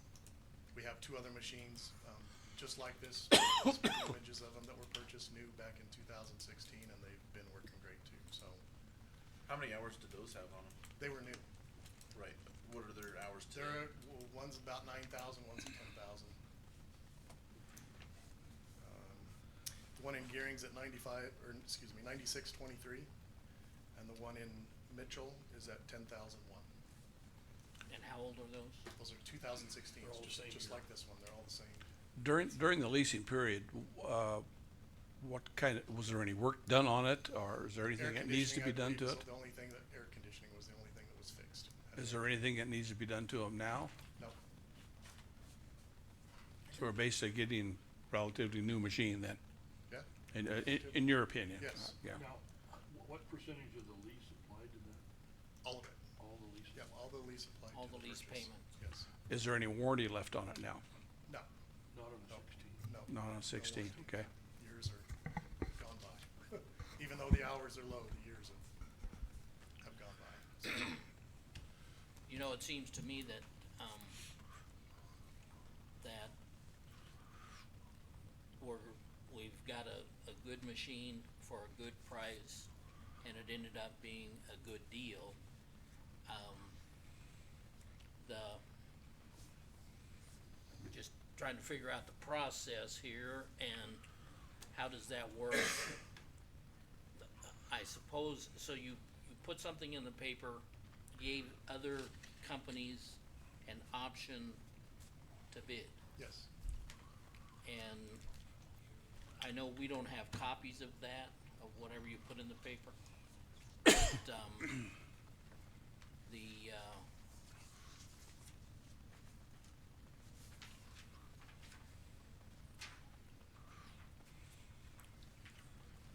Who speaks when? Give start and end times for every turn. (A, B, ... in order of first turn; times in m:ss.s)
0:00.7-0:08.6 A
0:09.5-0:10.7 B
0:11.0-0:11.4 A
0:12.1-0:13.9 B
0:13.5-0:16.4 A
0:18.8-0:19.3 A
0:19.9-0:23.1 A
0:23.9-0:26.7 A
0:27.9-0:28.8 C
0:29.0-0:31.9 A
0:30.0-0:30.8 D
0:32.2-0:34.4 E
0:35.2-0:39.2 E
0:37.9-0:42.3 A
0:42.0-0:43.9 E
0:46.7-0:49.4 E
0:50.3-0:52.2 E
0:50.6-0:50.9 A
0:51.6-0:52.0 A
0:52.1-0:55.0 D
0:55.6-0:56.0 A
0:56.2-0:56.8 D
0:56.7-0:59.1 A
0:57.7-0:58.7 C
0:59.3-1:00.8 E
1:01.9-1:02.8 D
1:02.3-1:05.1 A
1:03.1-1:04.2 E
1:05.7-1:08.7 A
1:09.8-1:11.0 A
1:12.3-1:14.2 C
1:16.0-1:16.3 C
1:18.6-1:22.7 C
1:23.2-1:25.4 C
1:26.2-1:26.8 C
1:28.2-1:28.6 C
1:30.9-1:34.0 C
1:34.7-1:36.0 C
1:37.2-1:44.6 C
1:45.5-1:46.0 C
1:46.2-1:46.5 A
1:47.6-1:48.2 C
1:49.4-1:52.9 C
1:53.8-1:54.9 C
1:56.2-1:57.0 C